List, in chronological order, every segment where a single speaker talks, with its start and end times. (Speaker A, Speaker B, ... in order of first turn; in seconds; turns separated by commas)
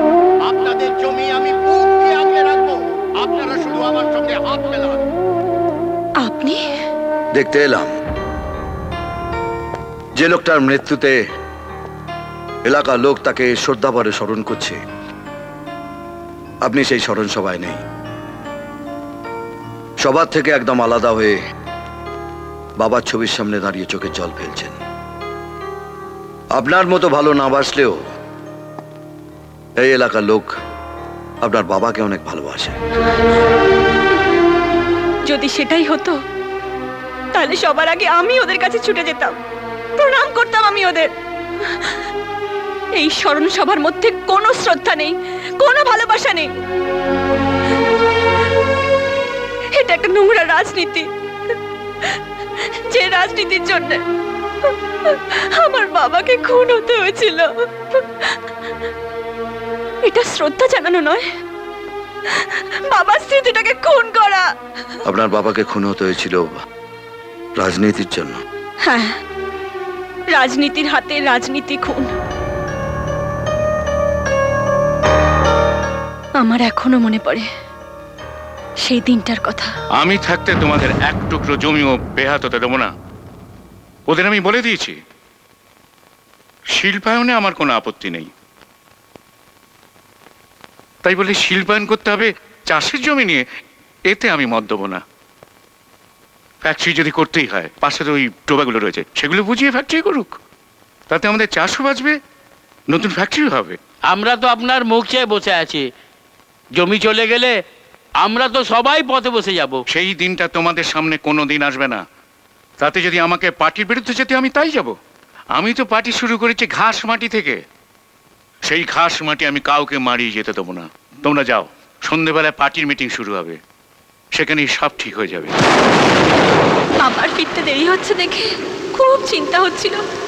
Speaker A: 0.4-5.0, Speaker B: 6.2-6.6, Speaker C: 7.3-7.9, Speaker C: 10.2-11.2, Speaker C: 12.7-14.8, Speaker C: 16.6-17.8, Speaker C: 20.0-21.4, Speaker C: 22.8-24.8, Speaker C: 26.6-28.0, Speaker C: 29.8-30.5, Speaker C: 31.4-32.8, Speaker B: 35.3-36.2, Speaker B: 37.3-39.4, Speaker B: 40.0-41.1, Speaker B: 41.6-42.0, Speaker B: 43.0-46.5, Speaker B: 49.7-51.1, Speaker B: 52.0-54.0, Speaker B: 54.7-58.4, Speaker B: 60.0-61.2, Speaker B: 62.3-64.5, Speaker C: 65.0-66.5, Speaker C: 67.6-68.4, Speaker B: 68.8-69.2, Speaker B: 70.3-72.1, Speaker B: 76.4-77.5, Speaker B: 78.8-79.7, Speaker D: 80.0-82.9, Speaker D: 84.1-85.0, Speaker D: 86.8-88.3, Speaker D: 91.0-93.4, Speaker D: 94.1-95.0, Speaker D: 96.6-100.4, Speaker D: 101.1-102.2, Speaker D: 102.9-103.8, Speaker E: 104.1-105.9, Speaker E: 106.8-107.6, Speaker E: 108.2-109.8, Speaker D: 109.9-112.0, Speaker D: 112.8-114.9, Speaker D: 115.6-117.6, Speaker D: 118.7-123.6, Speaker D: 124.4-125.5, Speaker B: 127.0-130.0